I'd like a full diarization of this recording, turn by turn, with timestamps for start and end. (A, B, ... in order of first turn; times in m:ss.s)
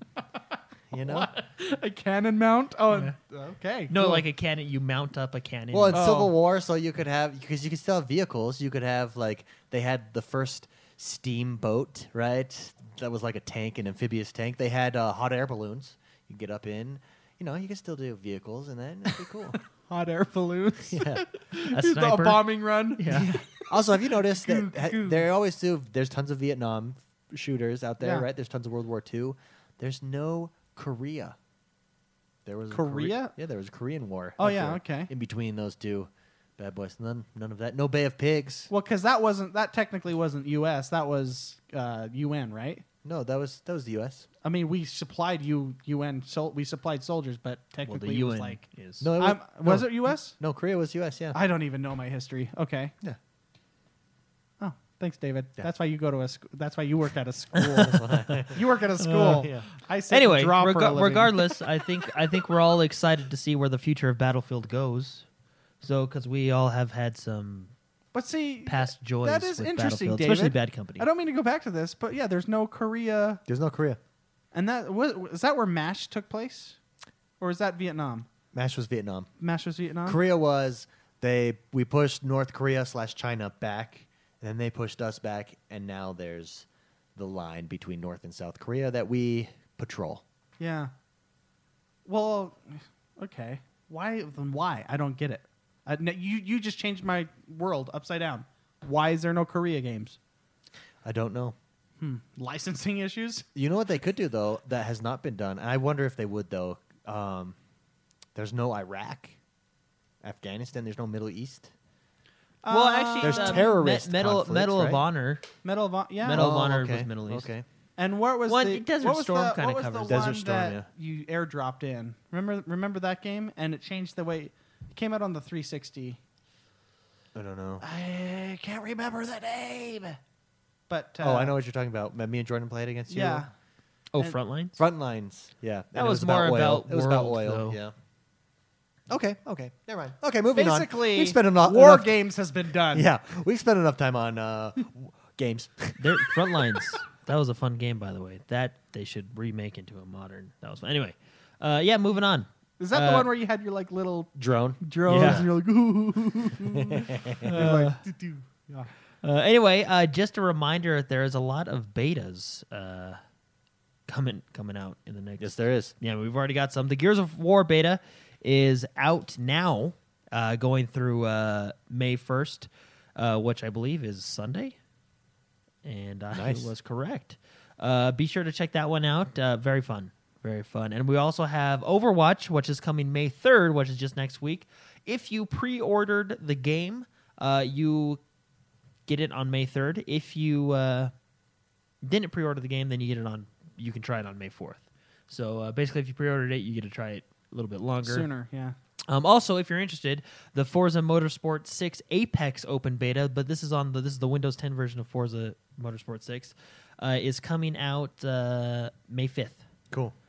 0:00.9-0:01.3 A
0:01.0-0:04.2 B
0:03.9-0:06.2 C
0:05.7-0:19.6 A
0:05.9-0:06.3 B
0:19.5-0:25.2 B
0:20.9-0:21.2 A
0:21.6-0:23.4 C
0:23.7-0:31.4 A
0:28.0-0:28.3 B
0:32.4-0:38.7 A
0:32.7-0:33.3 B
0:34.4-0:35.1 B
0:38.7-0:42.8 B
0:43.0-0:44.3 A
0:44.4-0:48.6 B
0:47.8-0:49.1 C
0:49.0-0:51.4 A
0:49.2-0:50.4 B
0:51.3-0:52.9 B
0:54.6-1:01.6 B
0:57.8-0:58.6 A
0:59.0-0:59.5 C
0:59.3-0:59.7 A
1:00.1-1:05.2 C
1:05.8-1:07.7 C
1:08.1-1:13.4 B
1:08.7-1:11.1 C
1:13.5-1:14.0 A
1:14.5-1:16.8 B
1:17.4-1:18.3 B
1:18.5-1:19.3 A
1:19.4-1:20.2 B
1:20.0-1:30.2 A
1:30.6-1:30.9 B
1:32.1-1:40.2 B
1:41.0-1:41.6 A
1:42.0-1:43.5 B
1:43.6-1:47.6 A
1:48.4-1:49.4 A
1:50.2-1:51.7 A
1:52.6-1:53.7 B
1:52.7-1:55.5 C
1:53.2-1:55.0 A
1:55.6-1:56.4 B
1:56.2-1:57.5 C
1:56.3-1:57.7 A
1:58.0-2:06.2 B
1:58.5-2:00.4 C
2:00.1-2:00.9 A
2:07.4-2:07.9 A
2:07.9-2:09.8 B
2:10.9-2:11.5 B
2:11.2-2:13.5 A
2:13.1-2:13.5 B
2:14.1-2:14.8 C
2:14.8-2:17.9 A
2:16.0-2:17.8 C
2:19.1-2:22.2 A
2:20.5-2:23.1 B
2:22.9-2:26.9 A
2:26.0-2:33.3 C
2:32.8-2:34.3 B
2:34.4-2:35.5 A
2:34.8-2:38.9 B
2:35.1-2:35.5 C
2:36.8-2:37.5 A
2:37.4-2:38.0 C
2:39.2-2:43.2 C
2:44.1-2:54.8 C
2:45.4-2:45.9 A
2:55.8-3:08.2 C
2:56.3-2:56.7 A
3:09.1-3:11.1 C
3:12.0-3:18.3 C
3:18.0-3:18.8 B
3:19.1-3:29.7 C